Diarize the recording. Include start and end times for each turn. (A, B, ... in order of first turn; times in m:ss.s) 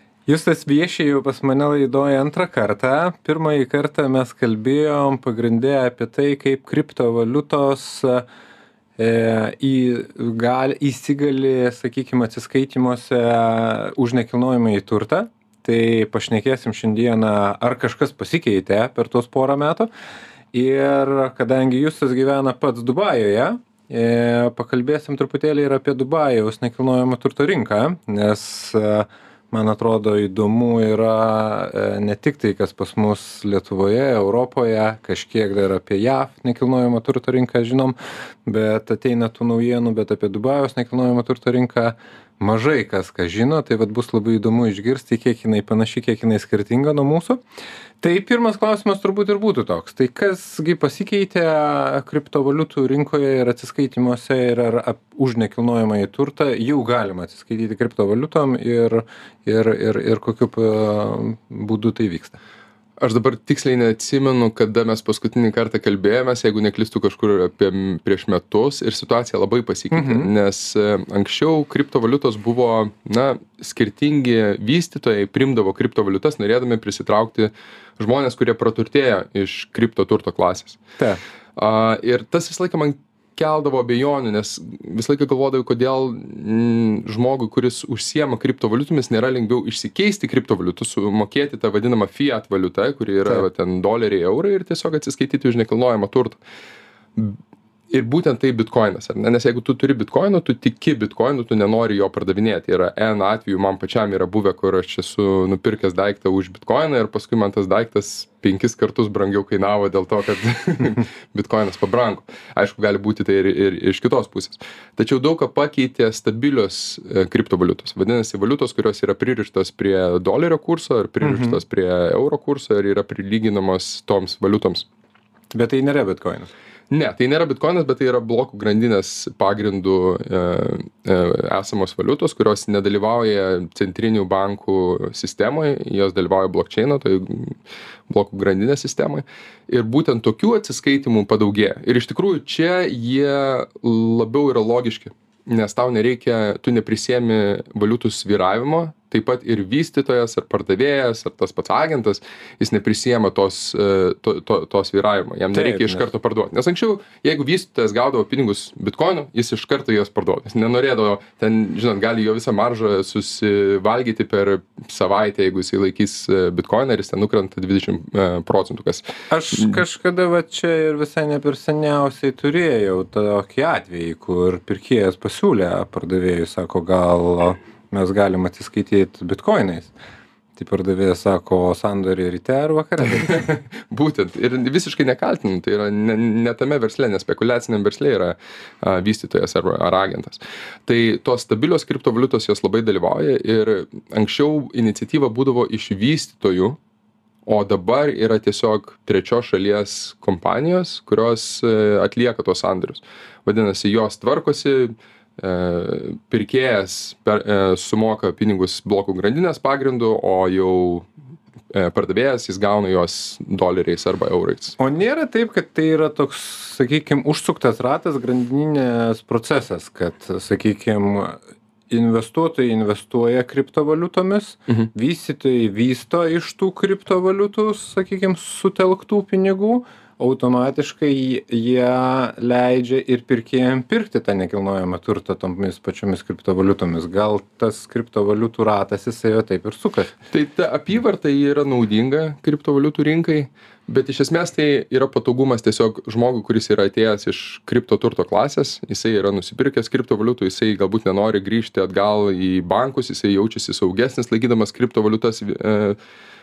0:00.3-0:08.2 A
0:09.0-0:19.9 A
0:20.5-0:47.4 A
0:48.0-1:02.4 A
1:03.0-1:20.8 B
1:09.9-1:10.3 A
1:21.6-1:36.4 B
1:37.9-2:04.9 B
2:01.2-2:01.6 A
2:05.5-2:06.5 A
2:06.9-2:49.8 B
2:35.5-2:36.0 A
2:49.3-2:59.9 A
3:00.6-3:03.5 A
3:03.1-3:16.8 B
3:17.4-3:31.1 B
3:31.7-3:34.8 B
3:34.8-3:41.4 A
3:41.9-4:00.1 A
4:00.3-4:16.0 B